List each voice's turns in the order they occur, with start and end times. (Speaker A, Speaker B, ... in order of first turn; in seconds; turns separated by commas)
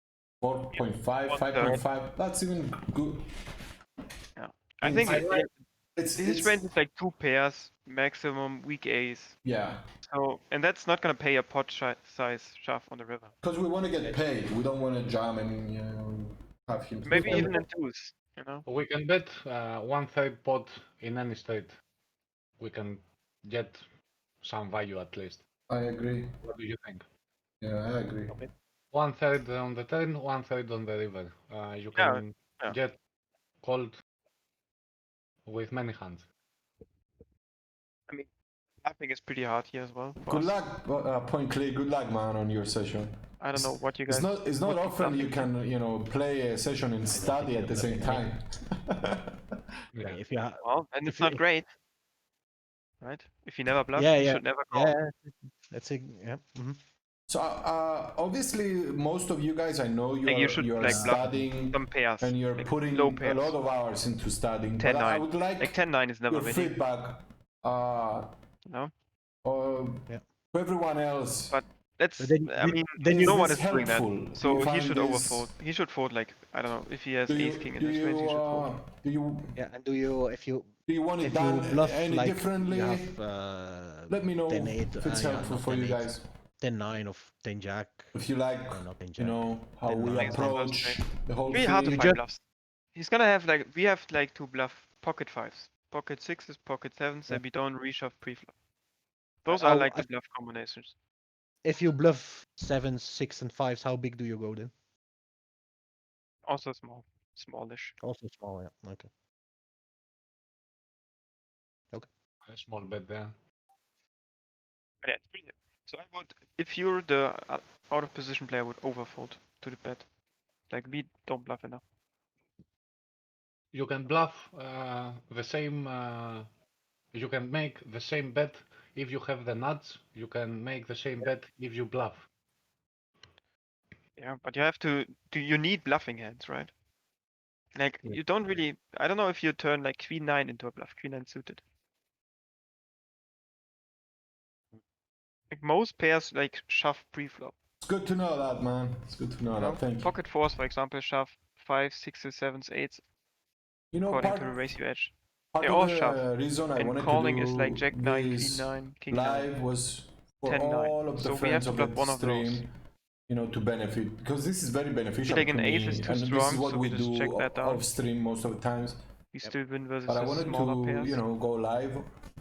Speaker A: 0.4-3.2, Speaker B: 0.7-1.8, Speaker B: 4.4-5.3, Speaker A: 4.8-6.6, Speaker C: 5.0-5.5, Speaker B: 6.2-9.4, Speaker A: 9.4-9.8, Speaker B: 10.0-13.3, Speaker A: 13.4-17.6, Speaker B: 17.1-18.6, Speaker D: 17.2-17.6, Speaker C: 18.7-21.8, Speaker C: 22.6-23.9, Speaker C: 24.4-25.4, Speaker A: 25.7-26.3, Speaker C: 26.4-27.0, Speaker A: 27.6-28.4, Speaker C: 28.9-33.0, Speaker B: 31.9-32.8, Speaker C: 33.6-34.0, Speaker C: 35.5-36.3, Speaker B: 38.8-40.5, Speaker A: 40.3-48.4, Speaker B: 43.4-45.5, Speaker D: 47.0-48.3, Speaker A: 49.0-49.3, Speaker C: 49.9-50.2, Speaker D: 50.0-51.4, Speaker B: 50.6-51.7, Speaker B: 53.0-55.0, Speaker D: 54.0-56.8, Speaker A: 57.3-65.8, Speaker B: 60.2-63.6, Speaker D: 60.8-61.5, Speaker B: 64.8-66.8, Speaker A: 66.3-68.3, Speaker B: 68.7-68.9, Speaker A: 69.4-71.6, Speaker B: 71.5-78.7, Speaker D: 72.2-73.5, Speaker A: 73.1-75.5, Speaker A: 77.3-79.6, Speaker D: 79.5-88.2, Speaker A: 80.9-83.2, Speaker A: 84.1-86.3, Speaker A: 88.1-92.1, Speaker D: 88.7-90.6, Speaker B: 90.0-92.4, Speaker D: 91.8-92.2, Speaker B: 93.0-98.5, Speaker B: 99.4-101.0, Speaker D: 99.5-100.1, Speaker D: 101.6-104.7, Speaker B: 106.5-108.0, Speaker D: 108.0-109.1, Speaker C: 112.5-113.3, Speaker B: 115.0-120.1, Speaker B: 120.7-121.8, Speaker C: 123.7-126.5, Speaker C: 127.1-132.3, Speaker B: 134.2-136.7, Speaker B: 137.8-141.6, Speaker B: 145.5-147.6, Speaker A: 147.8-150.1, Speaker B: 149.6-153.0, Speaker A: 153.9-154.7, Speaker B: 154.0-159.5, Speaker A: 155.5-162.7, Speaker B: 160.4-162.7, Speaker A: 163.3-169.0, Speaker B: 165.2-167.9, Speaker B: 169.3-171.2, Speaker A: 170.1-172.1